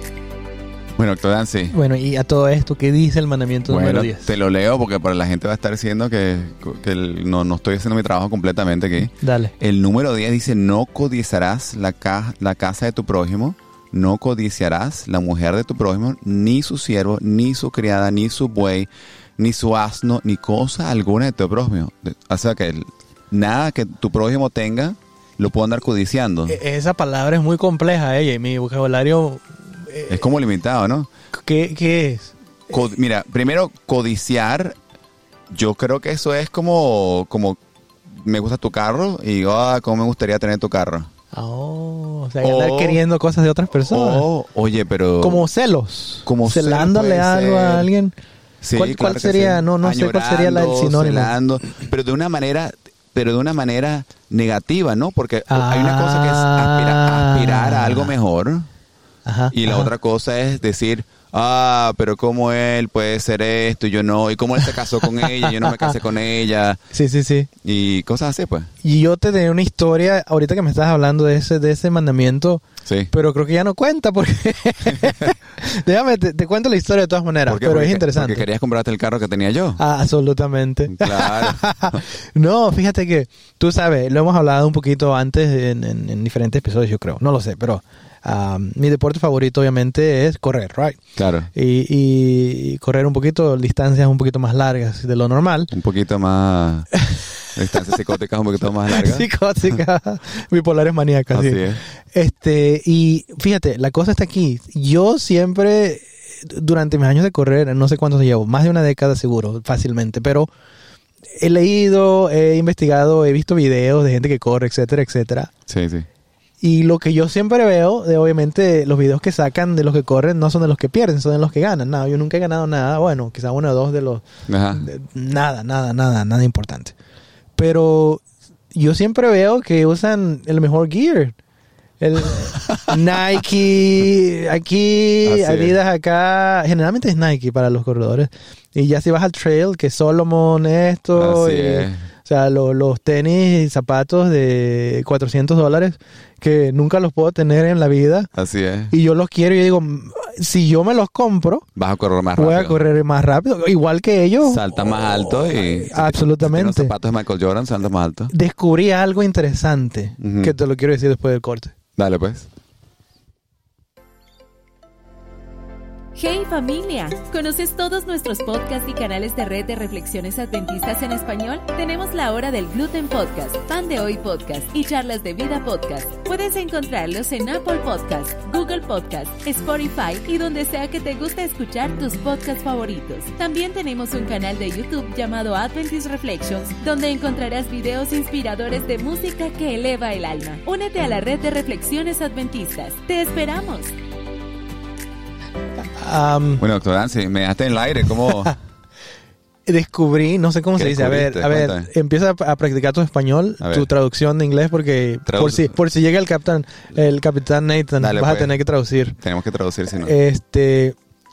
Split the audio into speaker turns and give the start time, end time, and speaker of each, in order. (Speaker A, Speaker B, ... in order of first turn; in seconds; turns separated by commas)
Speaker A: 1.0-1.8, Speaker B: 1.7-4.3, Speaker A: 3.7-26.6, Speaker B: 9.2-9.5, Speaker B: 26.5-30.3, Speaker A: 30.1-31.1, Speaker B: 31.3-32.3, Speaker A: 32.7-34.8, Speaker A: 35.5-37.6, Speaker A: 38.1-41.1, Speaker B: 41.3-44.3, Speaker A: 42.4-43.0, Speaker A: 43.7-45.5, Speaker B: 45.2-48.1, Speaker A: 46.2-47.9, Speaker A: 48.6-58.7, Speaker B: 48.7-51.4, Speaker B: 55.5-58.1, Speaker B: 59.2-59.9, Speaker A: 59.5-66.8, Speaker B: 65.0-66.0, Speaker B: 66.9-67.5, Speaker A: 67.6-68.7, Speaker B: 68.8-78.5, Speaker A: 72.8-73.1, Speaker A: 74.8-75.3, Speaker A: 77.5-79.8, Speaker B: 79.8-91.0, Speaker A: 80.9-82.0, Speaker A: 91.2-91.5, Speaker B: 91.5-95.7, Speaker A: 95.7-96.9, Speaker A: 97.5-99.3, Speaker B: 98.9-110.5, Speaker A: 101.3-101.8, Speaker B: 111.4-115.5, Speaker A: 115.7-116.1, Speaker B: 116.6-126.9, Speaker A: 124.5-124.9, Speaker B: 127.6-131.3, Speaker B: 132.0-148.3, Speaker A: 135.2-135.8, Speaker A: 141.1-142.1, Speaker A: 148.3-148.9, Speaker B: 148.9-151.6, Speaker A: 151.8-152.8, Speaker B: 152.3-156.9, Speaker A: 154.4-158.3, Speaker B: 158.3-161.7, Speaker A: 160.2-160.5, Speaker A: 162.0-162.5, Speaker C: 166.2-193.9, Speaker B: 196.0-196.6, Speaker A: 196.6-198.5, Speaker B: 198.2-198.5, Speaker B: 199.7-209.2, Speaker A: 200.7-201.9, Speaker A: 203.6-203.9, Speaker A: 205.2-205.7, Speaker A: 208.0-208.6, Speaker A: 209.2-210.1, Speaker B: 209.9-210.9